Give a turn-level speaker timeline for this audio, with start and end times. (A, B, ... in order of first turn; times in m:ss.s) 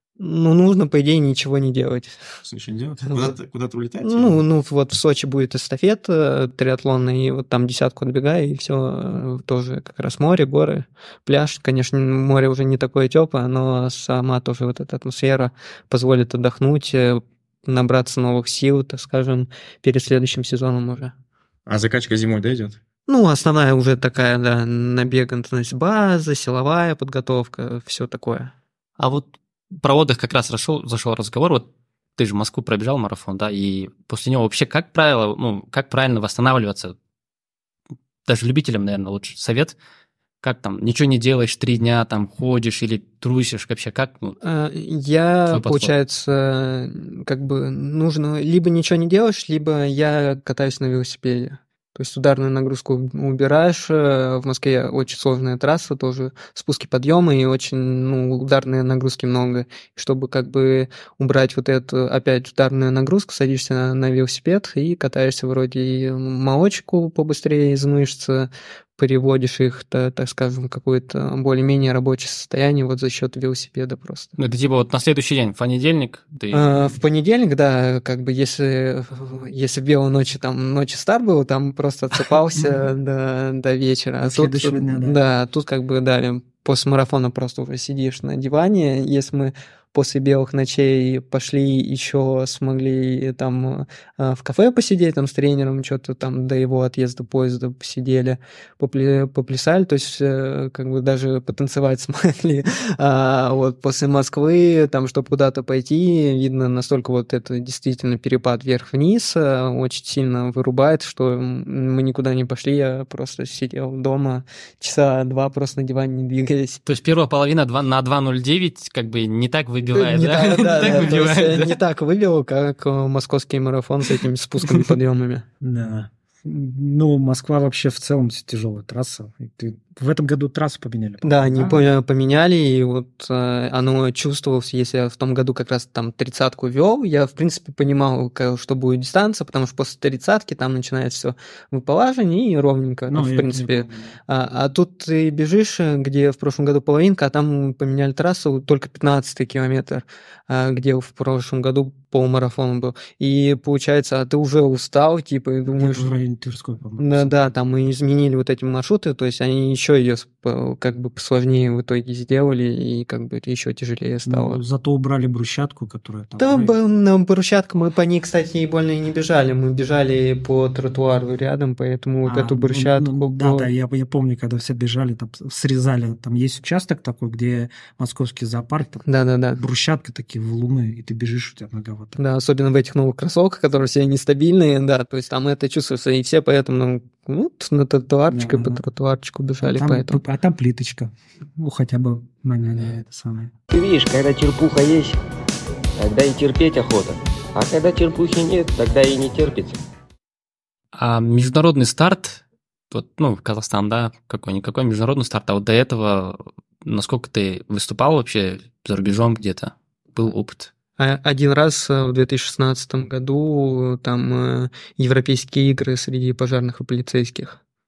0:00.2-0:02.2 A
0:02.4-0:04.4 B
0:04.0-0:21.1 A
0:21.7-0:22.8 B
0:23.1-0:28.5 A
0:29.0-0:29.3 C
0:29.8-0:37.0 C
0:38.3-0:39.8 C
0:40.4-0:44.4 C
0:44.4-1:14.3 A
0:45.5-0:45.9 C
1:14.4-1:16.7 C
1:16.5-1:56.8 A
1:22.6-1:22.8 D
1:24.2-1:25.2 D
1:56.9-2:01.8 C
1:59.9-2:05.4 A
2:05.6-2:11.8 D
2:11.2-2:36.1 A
2:23.1-2:24.2 D
2:35.7-2:37.4 D
2:37.0-2:44.6 A
2:44.3-2:46.7 D
2:46.4-2:53.7 A
2:52.3-2:59.0 D
2:59.1-2:59.6 A
2:59.6-3:02.2 D
3:02.2-3:10.2 A
3:08.3-3:08.8 D
3:09.6-3:13.5 D
3:13.7-3:15.2 E
3:16.0-3:19.8 E
3:20.9-3:30.7 C
3:31.0-3:37.6 A